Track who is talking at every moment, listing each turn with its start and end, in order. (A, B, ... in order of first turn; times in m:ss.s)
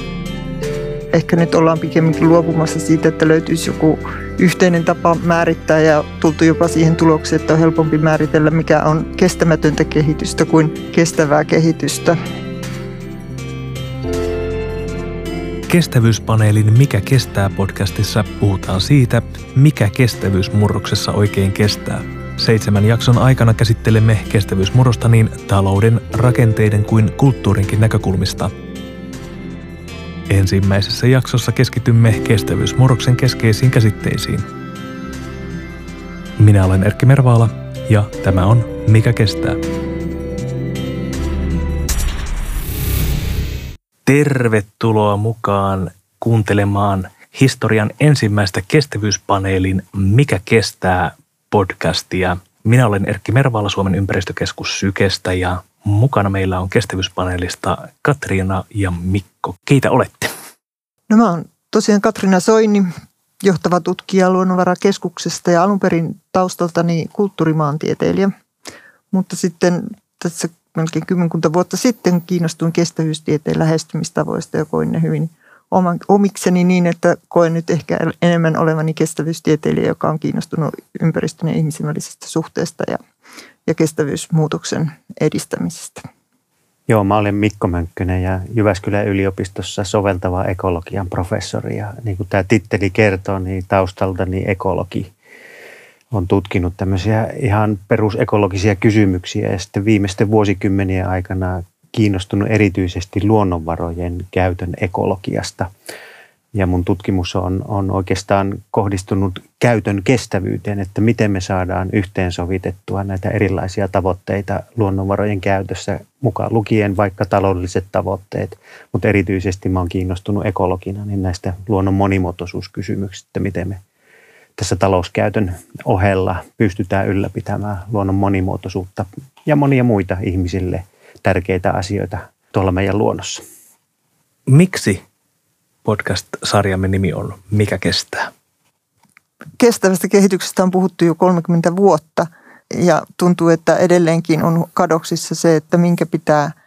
0:01.1-0:12.2 A
0:15.7-0:28.5 B
0:30.3-0:34.5 B
0:36.4-0:39.6 B
0:44.1-1:00.3 B
1:01.1-1:02.9 A
1:03.4-1:08.3 A
1:09.1-1:23.0 A
1:23.7-1:26.0 A
1:26.9-1:35.1 C
1:36.1-1:45.7 C
1:46.5-2:03.8 C
2:04.6-2:13.4 C
2:14.5-2:15.0 B
2:15.8-2:18.3 B
2:19.6-2:26.5 A